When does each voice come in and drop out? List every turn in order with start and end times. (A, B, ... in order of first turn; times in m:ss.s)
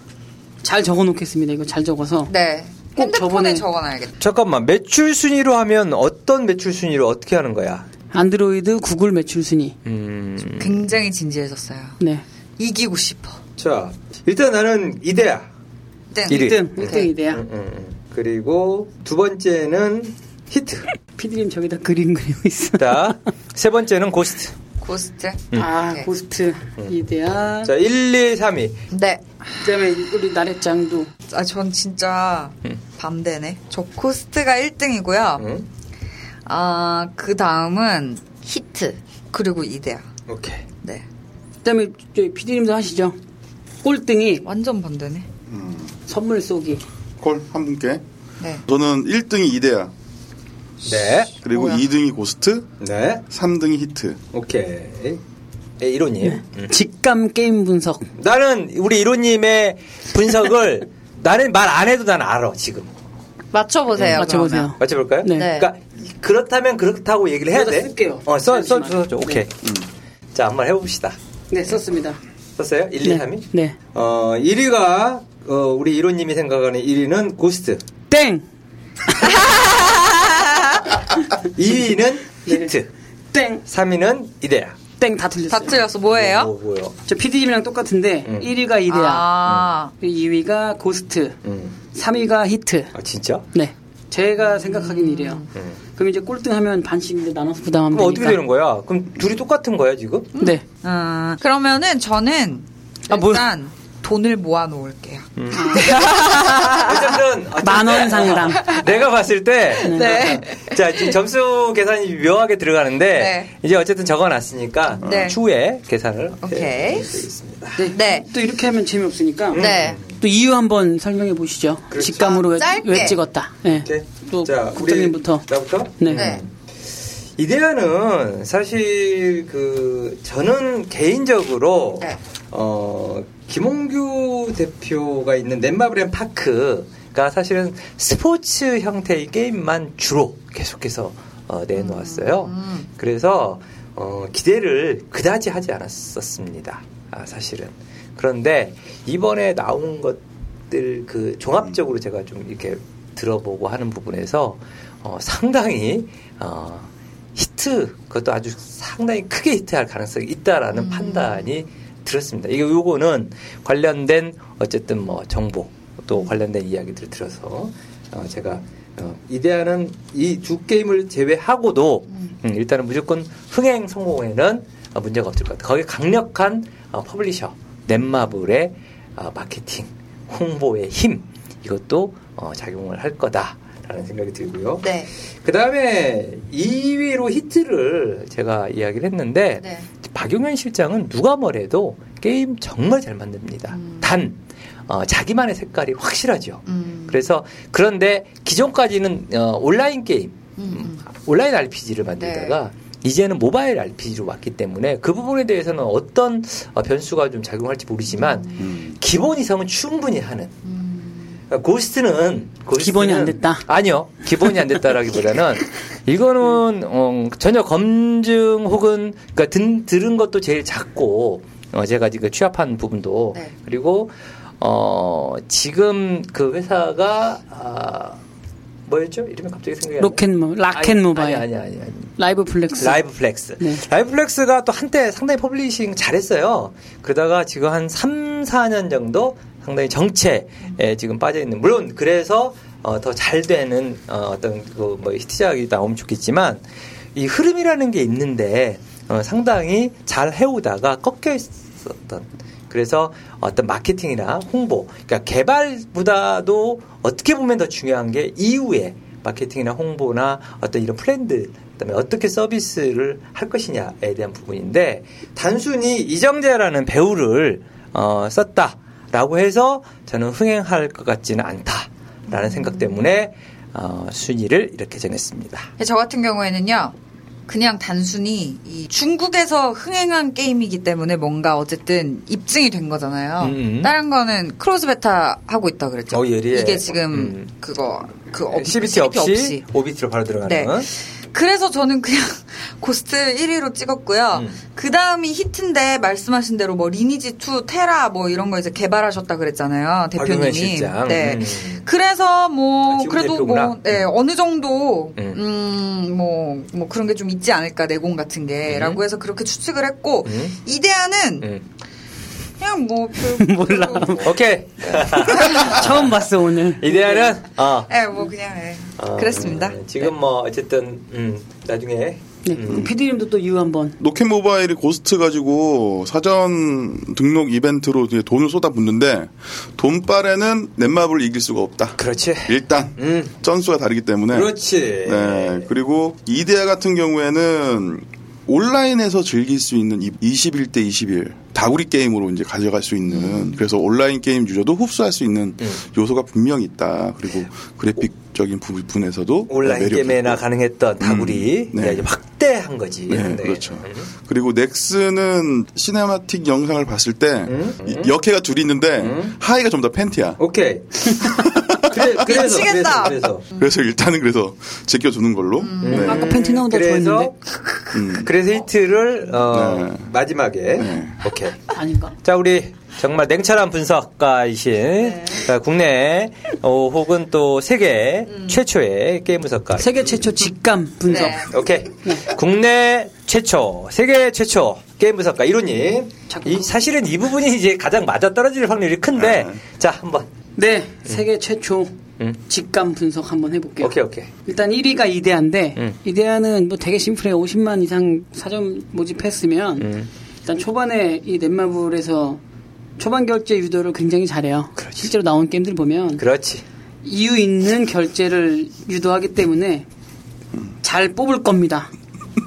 0:00.6-0:02.3 A
0:02.3-0:04.2 B
0:03.0-0:03.6 A
0:04.2-0:07.9 C
0:08.1-0:09.8 A
0:09.8-0:10.9 C
0:10.6-0:12.0 B
0:12.6-0:13.4 B
0:13.6-0:15.5 C
0:16.1-0:17.1 B
0:16.3-0:20.9 C
0:16.3-0:17.4 A
0:21.2-0:23.2 A
0:22.8-0:24.5 C
0:24.8-0:26.1 B
0:25.6-0:27.7 A
0:27.6-0:28.8 C
0:28.9-0:29.3 B
0:29.6-0:31.1 A
0:31.3-0:35.5 B
0:35.4-0:35.7 C
0:36.5-0:40.1 B
0:40.3-0:40.7 C
0:41.6-0:43.2 A
0:43.8-0:44.4 A
0:44.4-0:45.3 B
0:45.5-0:45.9 D
0:46.1-0:46.8 A
0:47.2-0:48.0 D
0:48.6-0:49.9 D
0:50.8-0:51.3 C
0:51.4-0:52.7 D
0:51.5-0:51.9 B
0:52.8-0:53.2 C
0:53.3-0:54.2 D
0:54.3-0:55.2 C
0:55.8-0:56.8 C
0:56.2-0:58.1 A
0:58.2-1:02.9 C
1:03.5-1:04.7 B
1:03.9-1:09.7 C
1:04.2-1:05.5 A
1:05.3-1:05.7 B
1:07.5-1:09.4 A
1:10.3-1:11.2 C
1:11.5-1:12.2 A
1:12.6-1:17.8 C
1:13.0-1:13.8 A
1:18.1-1:18.5 A
1:19.1-1:19.6 A
1:19.2-1:20.9 B
1:21.4-1:22.9 C
1:22.5-1:22.7 A
1:23.3-1:23.6 A
1:23.7-1:24.8 C
1:25.0-1:25.8 A
1:25.5-1:26.5 B
1:26.1-1:27.0 C
1:27.1-1:29.4 A
1:28.9-1:29.9 B
1:29.4-1:29.7 C
1:30.0-1:31.4 A
1:31.4-1:31.8 C
1:31.9-1:32.9 A
1:32.9-1:33.5 C
1:33.5-1:35.4 A
1:34.5-1:35.5 B
1:36.0-1:38.4 A
1:37.9-1:40.4 C
1:40.4-1:47.2 B
1:40.4-1:40.6 A
1:43.1-1:43.4 A
1:45.4-1:57.9 C
1:45.6-1:46.6 A
1:47.6-1:48.8 A
1:49.8-1:50.9 B
1:49.9-1:50.4 A
1:53.1-1:53.5 B
1:55.0-1:55.4 B
1:55.0-1:55.3 D
1:56.4-1:57.2 B
1:57.8-2:05.5 A
1:57.9-1:58.3 B
1:59.5-2:00.1 C
1:59.5-2:00.0 B
2:01.9-2:02.4 C
2:02.2-2:03.2 B
2:03.7-2:06.5 C
2:06.0-2:06.3 A
2:06.1-2:06.4 B
2:07.4-3:30.6 C
2:21.8-2:22.9 B
2:40.9-2:41.4 B
3:04.8-3:05.1 B
3:09.6-3:09.9 B
3:16.7-3:17.2 B
3:20.6-3:21.0 B
3:22.2-3:22.6 B
3:28.2-3:28.7 B
3:28.6-3:28.9 D
3:30.6-3:31.4 B
3:31.5-3:48.2 C
3:32.7-3:33.6 A
3:48.9-3:52.1 C
3:50.0-3:51.5 A
3:52.2-3:53.0 A
3:52.8-4:06.6 C
4:07.2-4:35.7 C
4:32.3-4:32.7 B
4:35.8-4:37.0 B
4:37.5-4:49.6 B
4:43.4-4:43.9 C
4:46.1-4:47.5 C
4:48.5-4:50.9 C
4:50.4-5:11.5 B
5:00.2-5:01.8 C
5:02.9-5:04.1 C
5:08.7-5:09.0 C
5:10.3-5:10.6 C
5:12.6-5:14.4 B
5:13.4-5:14.3 A
5:14.2-5:16.1 C
5:15.1-5:17.4 A
5:15.2-5:15.8 B
5:16.7-5:17.9 C
5:17.9-5:19.8 B
5:19.0-5:22.9 C
5:22.4-5:24.0 A
5:24.0-5:34.5 D
5:32.0-5:33.3 C
5:34.3-5:35.7 C
5:35.0-5:50.4 D
5:43.1-5:43.6 B
5:49.5-5:54.1 C
5:51.0-5:52.1 D
5:53.1-6:00.4 D
5:57.5-5:58.2 C
5:59.0-5:59.4 C
6:00.4-6:01.3 C
6:01.1-6:02.2 D
6:01.9-6:03.4 C
6:02.1-6:03.7 B
6:03.6-6:06.3 D
6:05.6-6:06.2 B
6:05.8-6:07.4 C
6:05.9-6:08.0 A
6:07.9-6:08.3 D
6:08.1-6:20.0 C
6:09.5-6:10.0 D
6:10.8-6:11.2 D
6:11.7-6:12.2 A
6:19.8-6:21.5 A
6:21.1-6:21.5 B
6:21.1-6:30.3 C
6:26.3-6:26.7 A
6:29.2-6:29.5 D
6:30.6-6:42.4 A
6:33.8-6:34.3 C
6:39.8-6:40.1 C
6:43.0-6:46.2 A
6:44.8-6:45.1 C
6:46.2-6:46.6 C
6:47.0-6:49.9 A
6:50.8-6:51.9 A